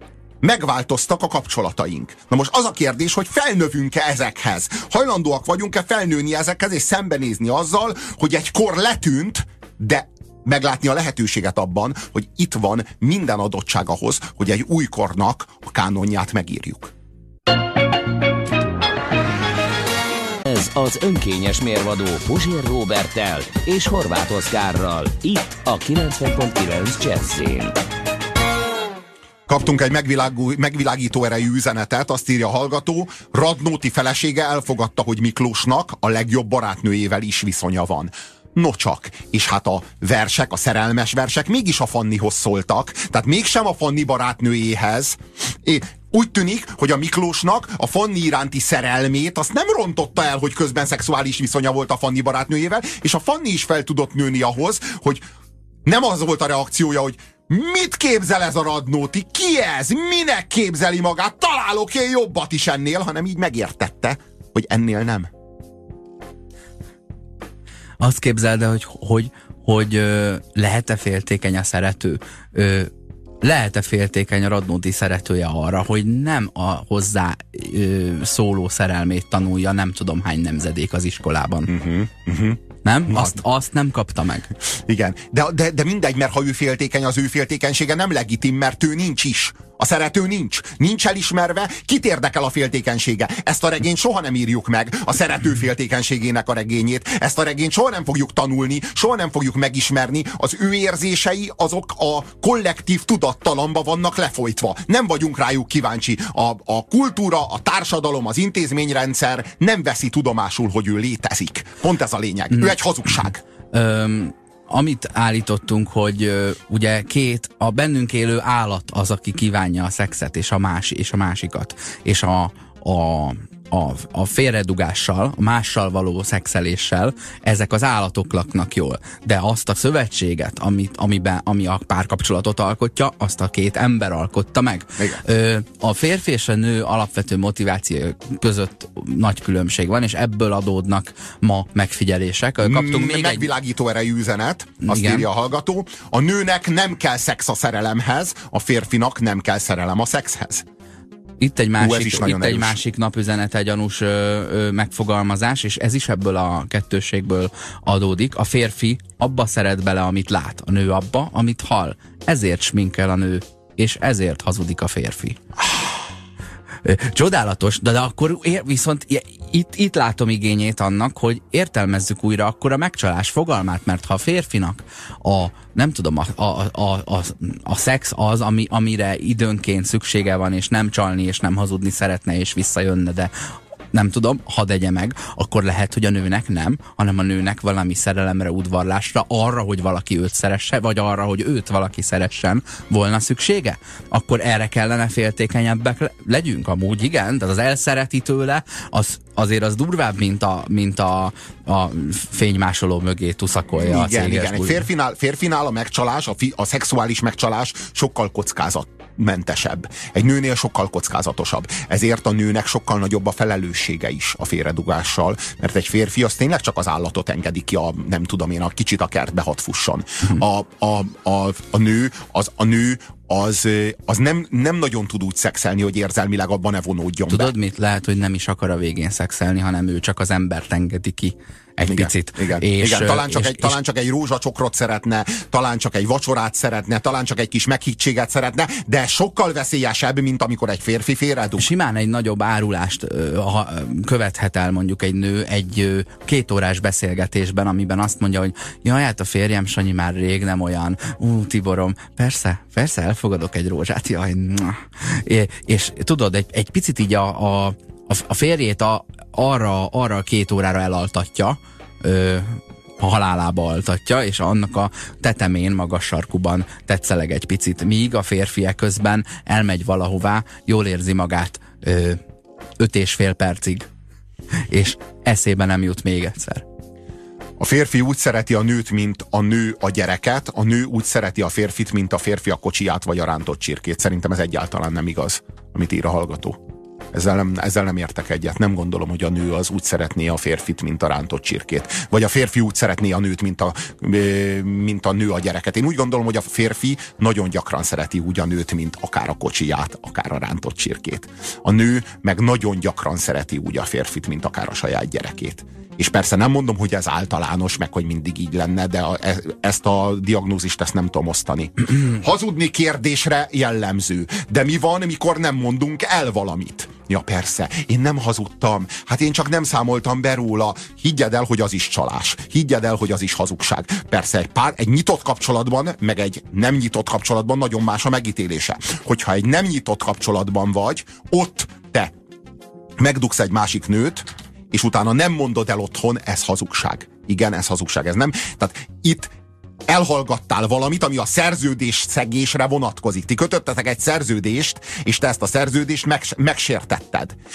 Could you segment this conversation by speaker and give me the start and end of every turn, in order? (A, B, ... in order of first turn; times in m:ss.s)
0:00.4-0:16.9 A
0:20.4-0:27.7 B
0:29.5-0:55.2 A
0:55.8-1:05.3 A
1:08.0-1:12.9 C
1:13.4-1:21.7 C
1:21.7-1:23.4 A
1:22.8-1:24.5 C
1:24.8-1:53.4 A
1:53.7-2:23.5 C
2:22.6-2:30.6 A
2:24.8-2:25.3 C
2:31.4-2:46.0 C
2:31.8-2:32.8 A
2:46.8-3:03.3 C
3:03.9-3:24.9 C
3:23.8-3:47.5 A
3:47.3-3:53.8 C
3:51.9-4:01.6 A
4:01.6-4:32.2 C
4:32.8-4:33.9 C
4:34.7-4:36.6 C
4:37.6-4:46.6 A
4:47.1-5:32.1 A
5:33.0-5:39.3 A
5:39.9-5:47.4 A